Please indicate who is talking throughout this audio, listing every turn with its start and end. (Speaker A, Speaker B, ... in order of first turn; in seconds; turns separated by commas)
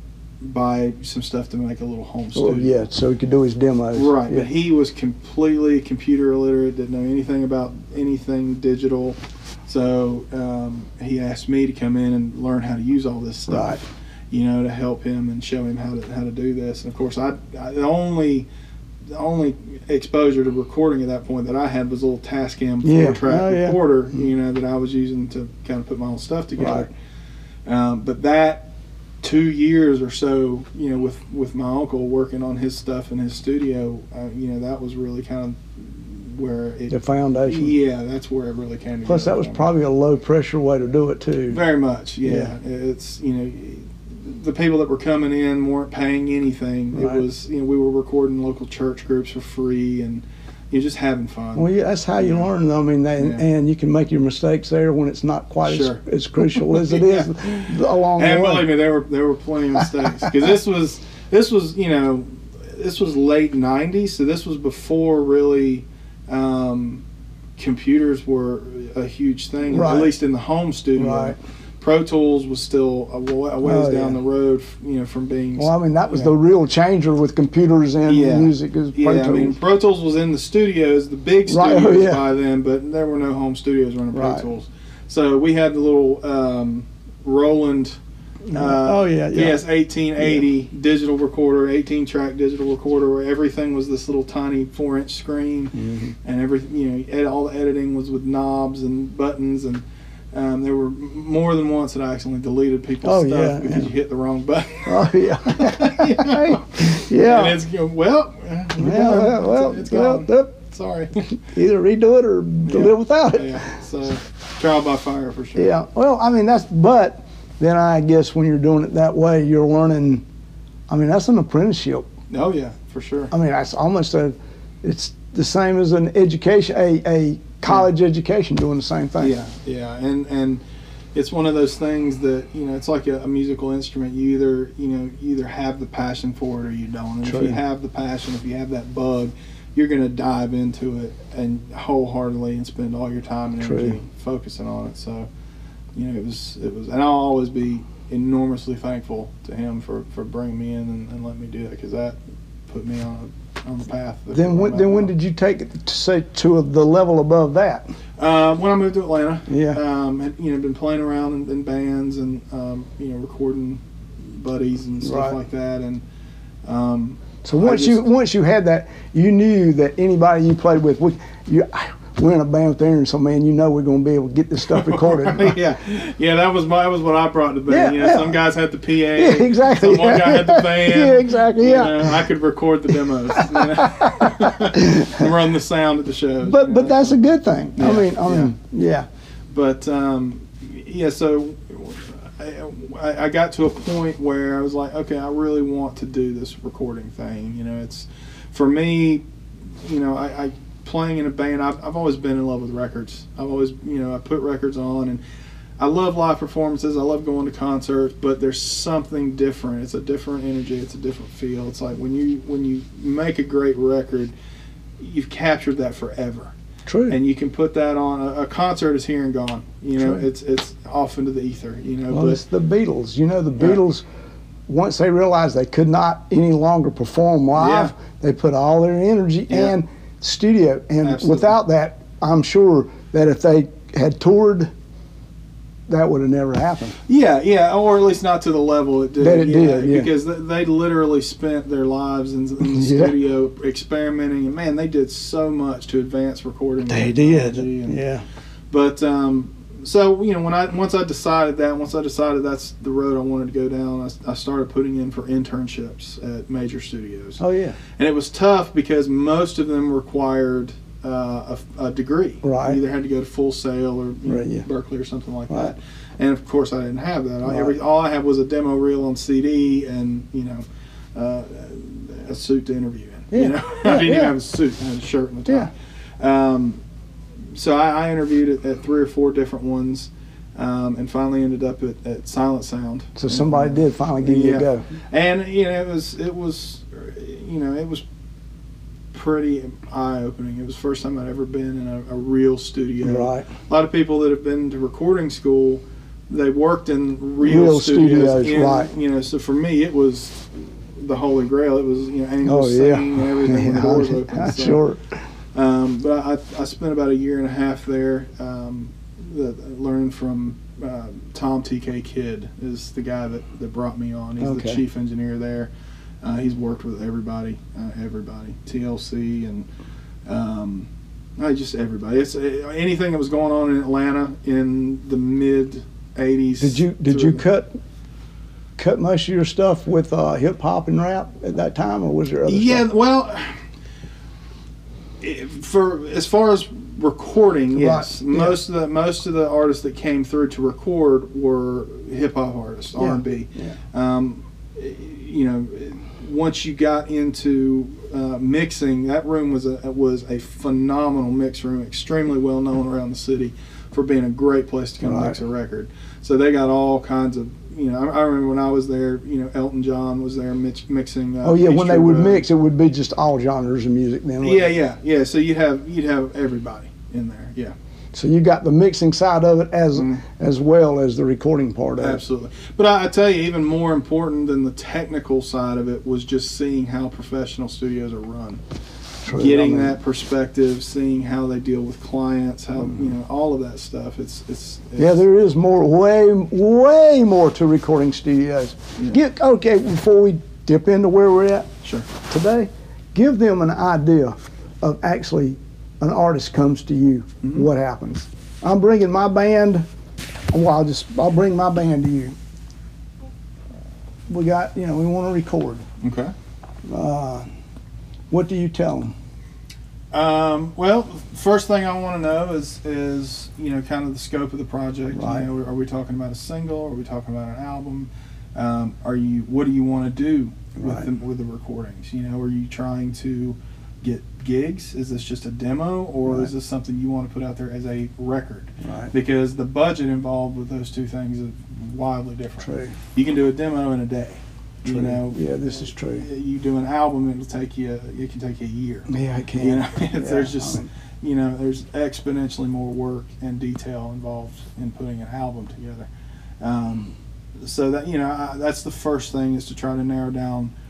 Speaker A: 0.4-2.8, Speaker B: 2.3-4.5, Speaker A: 4.0-18.5, Speaker B: 13.5-13.8, Speaker A: 19.1-26.9, Speaker B: 22.8-23.8, Speaker B: 26.6-26.9, Speaker A: 27.7-28.7, Speaker A: 29.2-39.7, Speaker B: 36.9-37.8, Speaker B: 39.0-41.6, Speaker A: 41.5-52.5, Speaker B: 42.2-42.5, Speaker B: 46.9-47.2, Speaker B: 51.6-58.8, Speaker A: 53.2-53.5, Speaker A: 55.6-56.0, Speaker A: 56.6-67.0, Speaker B: 59.8-60.3, Speaker A: 67.6-76.4, Speaker B: 69.7-70.2, Speaker B: 71.0-71.4, Speaker B: 73.6-74.2, Speaker B: 75.6-79.6, Speaker A: 78.1-88.0, Speaker B: 81.5-82.2, Speaker B: 84.1-84.5, Speaker B: 88.5-89.6, Speaker A: 88.5-111.3, Speaker B: 90.2-90.4, Speaker B: 95.7-96.2, Speaker B: 103.0-103.9, Speaker B: 104.9-107.6, Speaker B: 108.8-110.5, Speaker B: 111.4-113.7, Speaker A: 112.6-115.7, Speaker B: 115.6-120.2, Speaker B: 120.9-122.1, Speaker A: 122.3-123.3, Speaker B: 123.3-129.3, Speaker A: 129.2-130.6, Speaker A: 131.2-145.3, Speaker B: 137.2-137.6, Speaker B: 143.6-144.0, Speaker A: 145.9-152.2, Speaker A: 152.7-155.1, Speaker B: 154.3-157.8, Speaker A: 158.2-166.0, Speaker B: 159.5-159.8, Speaker B: 165.0-165.4, Speaker A: 166.7-168.1, Speaker B: 167.4-175.6, Speaker A: 174.7-187.2, Speaker B: 177.7-178.4, Speaker B: 179.2-182.3, Speaker B: 183.1-185.3, Speaker B: 186.4-189.1, Speaker A: 187.8-188.5, Speaker A: 189.5-199.2, Speaker A: 199.8-205.2, Speaker A: 205.8-214.3, Speaker A: 215.0-216.5, Speaker B: 216.9-217.2, Speaker A: 217.1-222.4, Speaker B: 220.0-220.2, Speaker B: 222.1-224.0, Speaker B: 224.7-234.7, Speaker A: 227.6-227.9, Speaker A: 229.5-229.8, Speaker A: 231.0-231.6, Speaker B: 235.9-237.0, Speaker A: 237.1-248.0, Speaker B: 239.2-240.1, Speaker B: 242.6-243.2, Speaker B: 246.9-248.2, Speaker A: 248.7-257.4, Speaker B: 257.4-257.8, Speaker A: 258.0-276.8, Speaker B: 262.4-262.8, Speaker B: 264.3-264.7, Speaker B: 265.5-265.7, Speaker B: 267.4-267.8, Speaker B: 273.3-274.3, Speaker A: 277.5-288.0, Speaker B: 283.2-284.9, Speaker A: 289.1-304.8, Speaker B: 293.0-293.5, Speaker B: 297.4-298.9, Speaker B: 302.4-305.1, Speaker A: 305.5-315.7, Speaker B: 314.4-314.8, Speaker A: 316.2-319.7, Speaker A: 320.3-327.4, Speaker B: 326.6-327.8, Speaker B: 328.8-332.9, Speaker A: 332.5-333.6, Speaker A: 335.2-362.4, Speaker B: 337.7-338.6, Speaker B: 343.0-343.8, Speaker B: 355.0-355.4, Speaker B: 361.4-364.7, Speaker A: 364.4-367.8, Speaker B: 368.1-372.2, Speaker A: 369.9-370.2, Speaker A: 372.0-378.6, Speaker B: 379.2-380.0, Speaker A: 379.3-385.2, Speaker B: 385.0-399.9, Speaker A: 391.8-392.1, Speaker A: 397.4-397.7, Speaker B: 400.5-402.4, Speaker B: 404.3-405.9, Speaker A: 406.0-406.3, Speaker B: 406.9-407.5, Speaker B: 408.3-409.1, Speaker A: 410.1-446.1, Speaker B: 415.1-415.5, Speaker B: 420.8-421.1, Speaker B: 426.3-426.5, Speaker B: 428.8-429.1, Speaker B: 432.6-433.0, Speaker B: 434.9-436.3, Speaker B: 439.1-440.9, Speaker A: 446.6-450.7